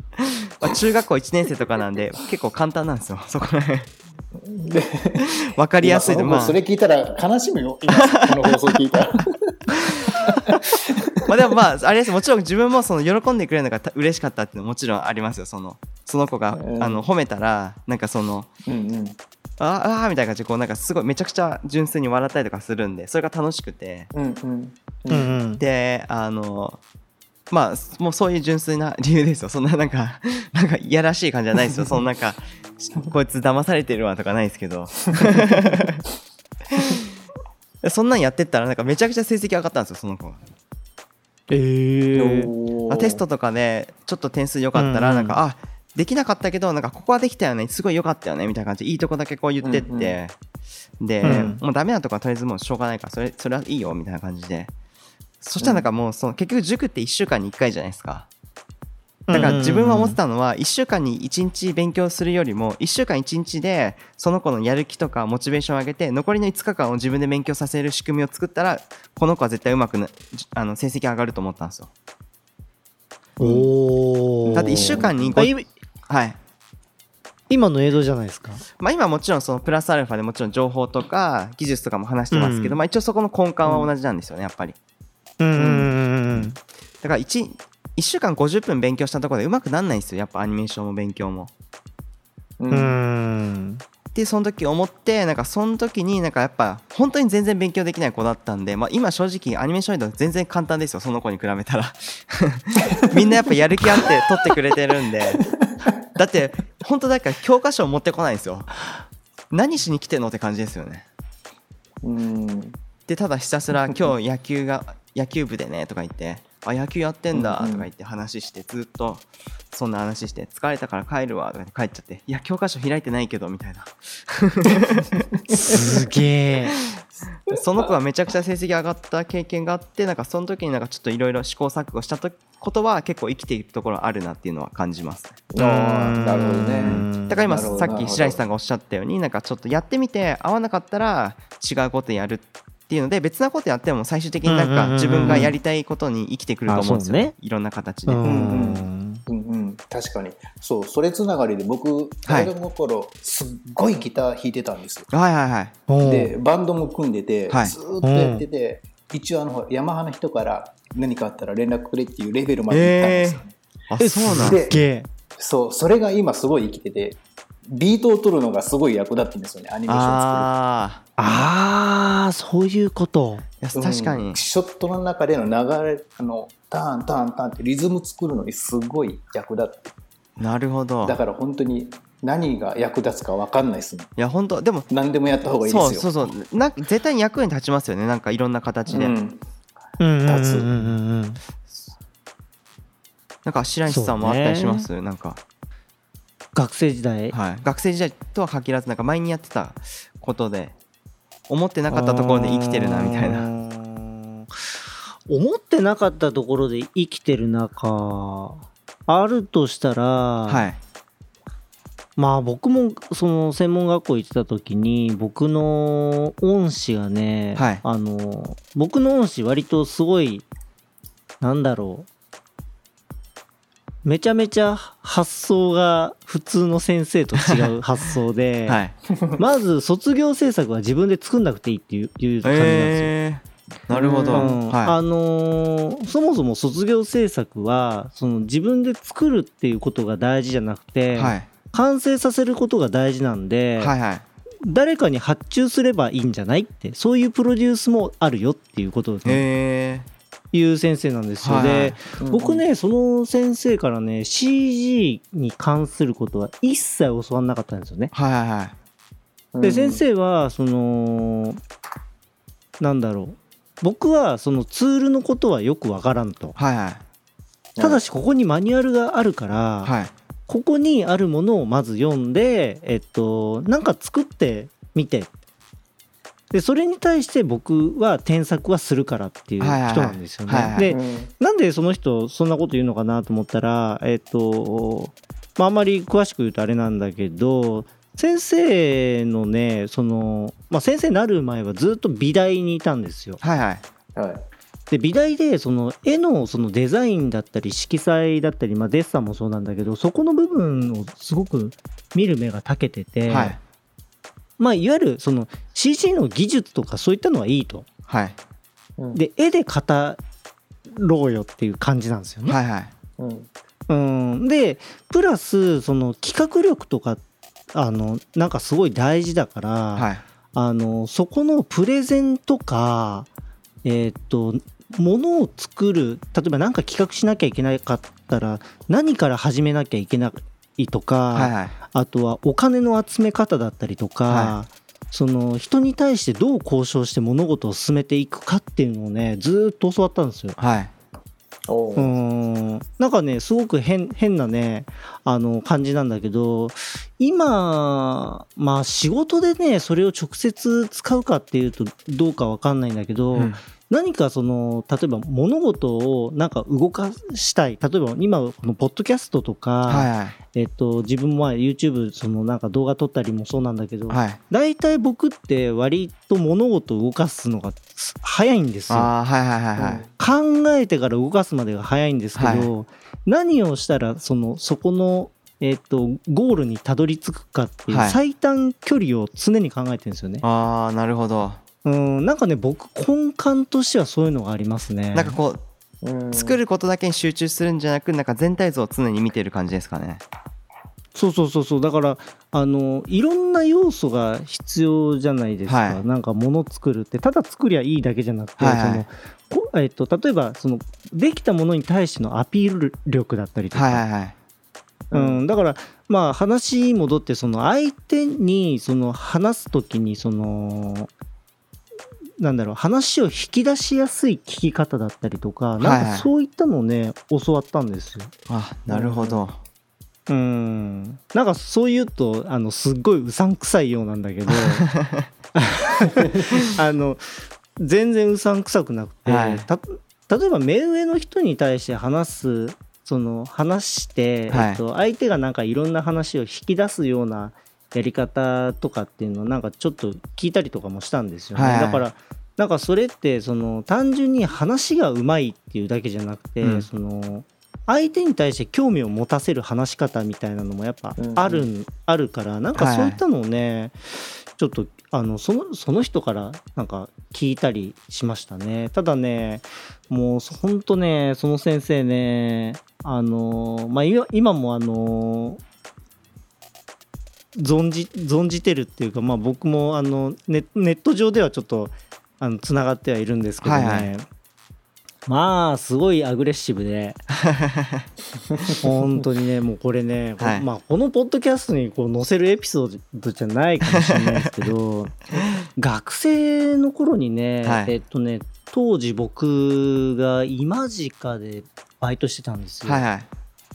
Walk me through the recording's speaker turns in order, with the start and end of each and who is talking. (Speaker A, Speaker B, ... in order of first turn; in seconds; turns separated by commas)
Speaker A: 0.2-3.9, Speaker B: 4.3-11.3, Speaker A: 5.2-6.6, Speaker A: 7.9-8.6, Speaker A: 9.7-18.5, Speaker B: 16.5-17.1, Speaker B: 18.7-19.2, Speaker A: 19.6-24.1, Speaker B: 24.1-25.4, Speaker C: 25.1-25.6, Speaker A: 25.6-26.8, Speaker A: 27.5-36.0, Speaker A: 36.7-37.0, Speaker A: 37.8-40.4, Speaker C: 41.5-42.5, Speaker B: 42.1-43.2, Speaker A: 42.9-50.3, Speaker C: 44.8-45.4, Speaker B: 49.6-50.2, Speaker A: 51.0-54.7, Speaker C: 51.2-51.6, Speaker B: 51.2-51.5, Speaker A: 55.4-58.3, Speaker B: 55.6-55.9, Speaker C: 59.3-60.2, Speaker A: 59.3-71.9, Speaker C: 73.4-75.7, Speaker B: 73.4-73.7, Speaker B: 74.5-75.4, Speaker A: 74.6-75.5, Speaker A: 76.1-76.4, Speaker C: 77.5-78.7, Speaker A: 78.8-84.8, Speaker C: 82.3-82.8, Speaker B: 83.6-83.9, Speaker C: 85.4-86.6, Speaker A: 87.0-91.5, Speaker B: 92.6-93.0, Speaker C: 92.7-93.8, Speaker A: 94.1-105.4, Speaker B: 105.4-105.9, Speaker A: 106.1-108.7, Speaker A: 109.5-111.1, Speaker B: 112.0-112.8, Speaker A: 113.1-125.8, Speaker B: 117.3-117.9, Speaker C: 125.5-126.8, Speaker A: 127.5-135.4, Speaker B: 135.5-138.4, Speaker C: 135.6-137.7, Speaker A: 136.4-148.4, Speaker C: 144.5-145.5, Speaker B: 145.2-145.5, Speaker C: 146.7-147.3, Speaker C: 148.1-149.2, Speaker B: 148.2-155.1, Speaker A: 152.3-152.5, Speaker A: 155.1-155.8, Speaker C: 155.9-156.3, Speaker B: 156.0-163.6, Speaker A: 157.5-157.8, Speaker C: 158.0-158.4, Speaker A: 162.7-164.6, Speaker C: 164.0-165.1, Speaker B: 164.3-164.8, Speaker B: 165.4-170.5, Speaker A: 169.9-171.1, Speaker C: 171.2-173.4, Speaker A: 173.6-174.4, Speaker B: 173.8-179.9, Speaker A: 180.4-181.2, Speaker B: 181.0-184.1, Speaker A: 184.2-184.9, Speaker B: 184.9-186.3, Speaker A: 185.7-189.2, Speaker B: 188.9-189.4, Speaker C: 190.0-191.4, Speaker B: 190.3-190.9, Speaker A: 193.4-195.4, Speaker C: 193.9-194.9, Speaker C: 196.6-197.4, Speaker A: 197.3-200.8, Speaker A: 201.5-203.5, Speaker C: 201.9-210.7, Speaker A: 210.5-210.8, Speaker C: 212.2-220.5, Speaker A: 217.6-217.8, Speaker C: 221.4-222.1, Speaker C: 224.0-228.8, Speaker A: 227.4-227.8, Speaker A: 228.7-228.9, Speaker B: 229.1-229.4, Speaker C: 229.4-233.1, Speaker A: 232.4-235.0, Speaker B: 233.9-234.6, Speaker C: 234.3-243.9, Speaker A: 241.1-241.5, Speaker A: 243.8-244.2, Speaker C: 244.6-249.4, Speaker A: 249.2-250.1, Speaker C: 250.5-258.1, Speaker A: 251.4-252.0, Speaker B: 252.2-252.6, Speaker A: 258.1-258.8, Speaker B: 259.5-260.0, Speaker C: 259.6-261.6, Speaker C: 262.8-266.6, Speaker A: 266.6-267.0, Speaker B: 267.8-268.0, Speaker C: 267.8-269.9, Speaker A: 269.8-270.1, Speaker C: 270.5-275.3, Speaker C: 276.5-293.4, Speaker A: 279.6-280.9, Speaker B: 280.8-281.3, Speaker A: 293.4-293.8, Speaker B: 294.2-294.4, Speaker C: 294.9-303.6, Speaker A: 303.3-303.6, Speaker C: 304.6-307.9, Speaker A: 308.1-308.4, Speaker C: 309.1-310.2, Speaker C: 310.9-312.6, Speaker A: 312.5-312.9, Speaker B: 313.2-313.5, Speaker C: 313.9-317.2, Speaker C: 317.7-323.3, Speaker A: 319.9-320.2, Speaker C: 323.8-340.6, Speaker A: 331.3-331.7, Speaker A: 334.3-334.6, Speaker A: 340.6-340.9, Speaker B: 341.7-342.2, Speaker C: 342.0-369.1, Speaker A: 353.3-353.6, Speaker A: 359.9-360.4, Speaker A: 364.1-364.4, Speaker A: 368.9-370.1, Speaker B: 369.8-370.1, Speaker C: 370.2-380.4, Speaker A: 372.4-372.7, Speaker A: 377.9-378.2, Speaker A: 380.4-381.6, Speaker C: 381.8-385.4, Speaker A: 385.1-385.6, Speaker B: 386.0-386.6, Speaker A: 386.3-390.2, Speaker C: 391.1-404.0, Speaker A: 395.7-396.0, Speaker A: 398.6-399.1, Speaker A: 403.7-404.4, Speaker B: 405.1-405.4, Speaker C: 405.1-411.1, Speaker C: 412.4-418.3, Speaker A: 415.8-416.3, Speaker A: 418.5-419.6, Speaker B: 418.9-419.4, Speaker C: 420.3-424.9, Speaker A: 424.5-425.3, Speaker C: 425.6-465.6, Speaker A: 429.3-429.7, Speaker A: 434.5-434.8, Speaker A: 441.6-442.1, Speaker A: 446.6-446.9, Speaker B: 451.2-451.7, Speaker A: 452.8-453.2, Speaker C: 467.6-474.2, Speaker A: 473.6-474.1, Speaker C: 475.3-477.2, Speaker A: 477.3-478.1, Speaker C: 478.8-493.1, Speaker A: 480.4-480.7, Speaker A: 483.9-484.7, Speaker A: 487.6-487.9, Speaker A: 492.9-493.3